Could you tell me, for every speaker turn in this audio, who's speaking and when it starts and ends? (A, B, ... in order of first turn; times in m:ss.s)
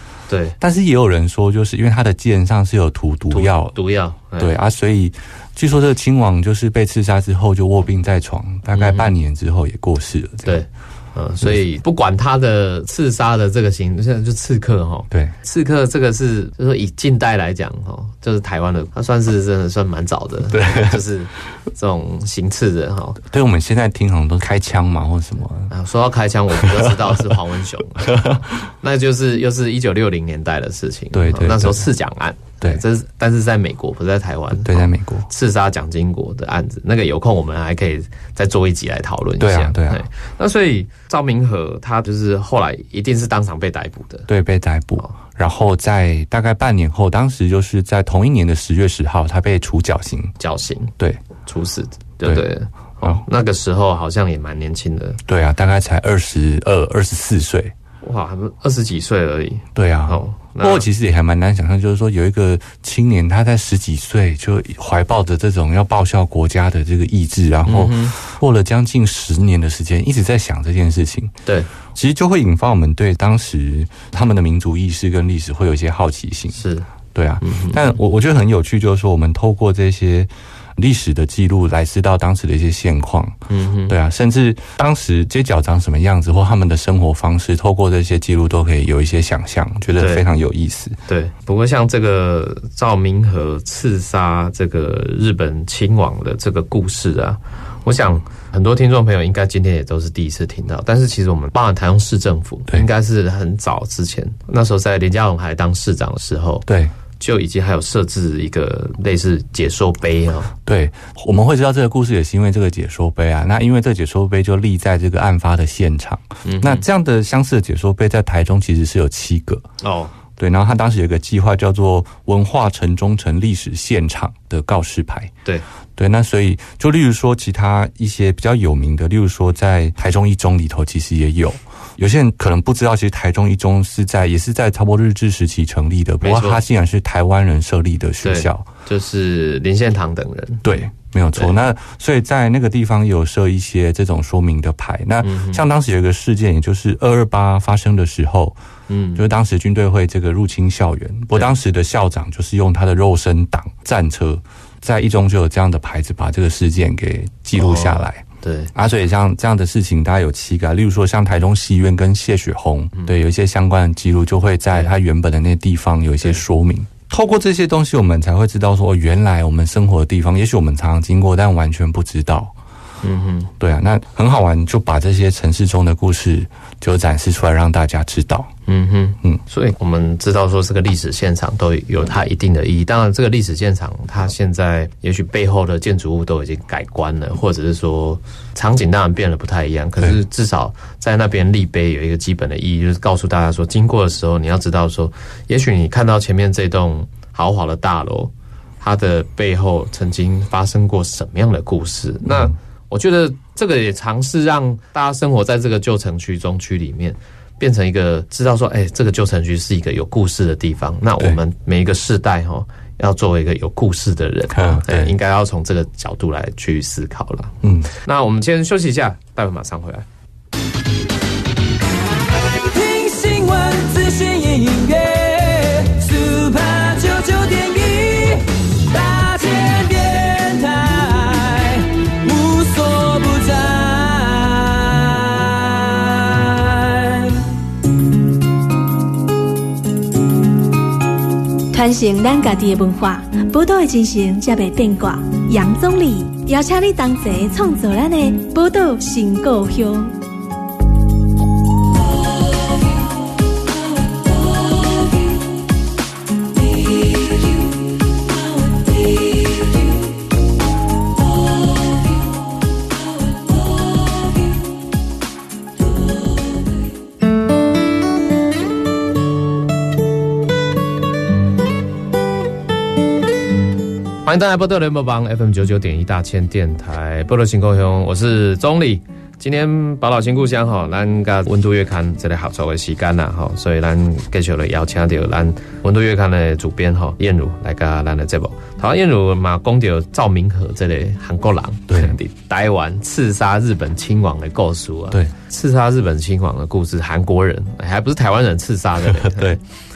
0:00.3-0:00.6 A
0:00.6-0:03.8 B
0:03.3-0:04.5 A
0:04.4-0:10.6 B
0:08.7-0:09.1 A
0:10.4-0:23.2 A
0:15.1-0:15.4 B
0:20.5-0:21.0 B
0:23.2-0:25.7 B
0:25.7-0:44.3 A
0:26.5-0:27.2 B
0:28.0-0:28.4 B
0:31.1-0:31.9 B
0:34.6-0:35.3 B
0:39.4-0:40.0 B
0:44.3-0:50.3 B
0:50.4-0:55.2 A
0:55.2-0:57.7 B
0:58.0-1:00.9 A
0:59.8-1:11.3 B
1:07.6-1:08.2 A
1:11.9-1:16.6 B
1:16.5-1:16.9 A
1:17.1-1:31.0 B
1:17.4-1:17.9 A
1:23.5-1:23.9 A
1:30.0-1:30.2 A
1:31.1-1:46.6 A
1:46.7-1:46.9 B
1:47.2-1:50.5 A
1:50.6-1:59.6 B
1:56.4-1:56.8 A
1:59.8-2:00.1 A
2:00.4-2:05.3 B
2:06.0-2:18.7 B
2:16.2-2:16.6 A
2:18.2-2:20.6 A
2:20.6-2:28.6 B
2:25.2-2:25.6 A
2:28.9-2:29.2 A
2:29.2-2:52.5 B
2:37.6-2:38.7 A
2:53.0-2:53.5 A
2:53.6-2:58.5 B
2:58.7-3:40.0 A
3:34.5-3:35.1 B
3:37.6-3:37.9 B
3:42.6-3:57.4 C
4:01.7-4:10.1 D
4:34.2-4:59.6 A
4:51.9-4:52.2 B
4:59.0-4:59.6 B